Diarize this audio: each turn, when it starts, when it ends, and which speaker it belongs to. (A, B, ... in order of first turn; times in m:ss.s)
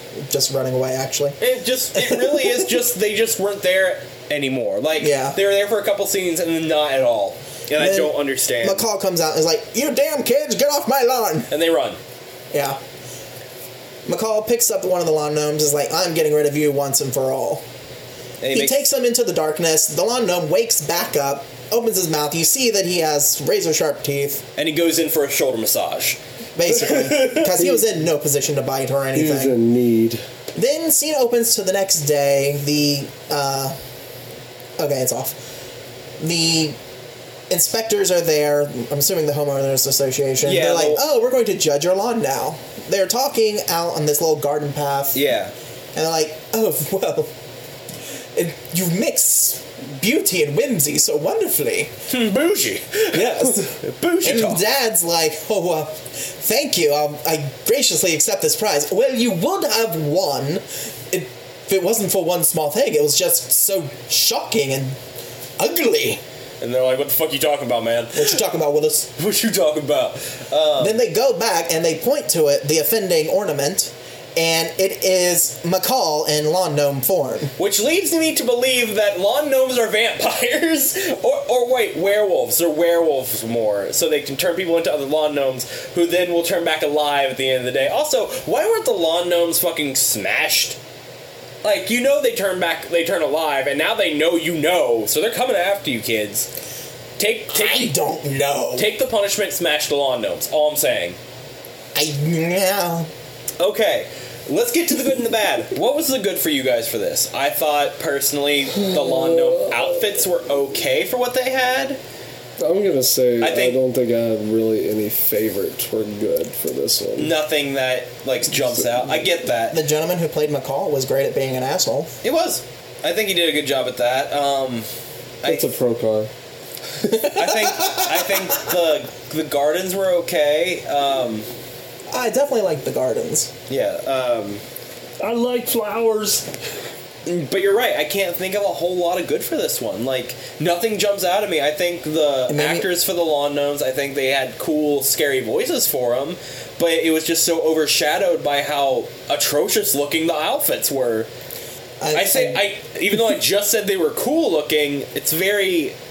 0:00.2-0:01.4 A
0:01.4-0:08.8 B
0:01.9-0:02.7 A
0:05.0-0:05.4 A
0:07.8-0:11.5 A
0:11.5-0:12.0 B
0:12.5-0:12.8 A
0:14.1-0:17.6 A
0:18.4-0:18.8 B
0:18.5-0:24.4 A
0:24.6-0:27.6 B
0:26.6-0:29.6 A
0:29.1-0:30.2 C
0:30.6-0:33.8 A
0:34.8-0:35.4 A
0:36.2-0:36.8 A
0:37.5-0:45.2 A
0:40.4-0:41.0 B
0:45.2-0:45.5 B
0:46.0-0:47.3 A
0:48.4-0:51.9 A
0:52.1-0:54.6 B
0:53.1-1:05.0 A
1:05.6-1:06.2 A
1:06.6-1:08.4 B
1:08.1-1:09.1 A
1:09.2-1:11.0 B
1:10.8-1:17.5 A
1:17.6-1:30.8 B
1:31.6-1:36.5 B
1:37.2-1:37.9 B
1:37.5-1:38.9 A
1:38.8-1:41.2 B
1:42.0-1:43.1 A
1:43.6-1:52.0 B
1:48.8-1:50.0 C
1:52.6-1:57.3 C
1:53.4-1:53.8 B
1:57.2-1:59.8 B
1:58.5-1:59.2 C
1:59.7-2:02.1 A
2:02.2-2:04.9 B
2:05.4-2:05.7 B
2:05.4-2:06.3 C
2:07.0-2:08.6 A
2:07.2-2:11.5 B
2:12.1-2:13.5 A
2:13.7-2:14.6 B
2:15.2-2:16.5 C
2:17.3-2:31.3 B
2:22.5-2:22.9 A
2:32.0-2:32.6 A
2:32.1-2:36.0 B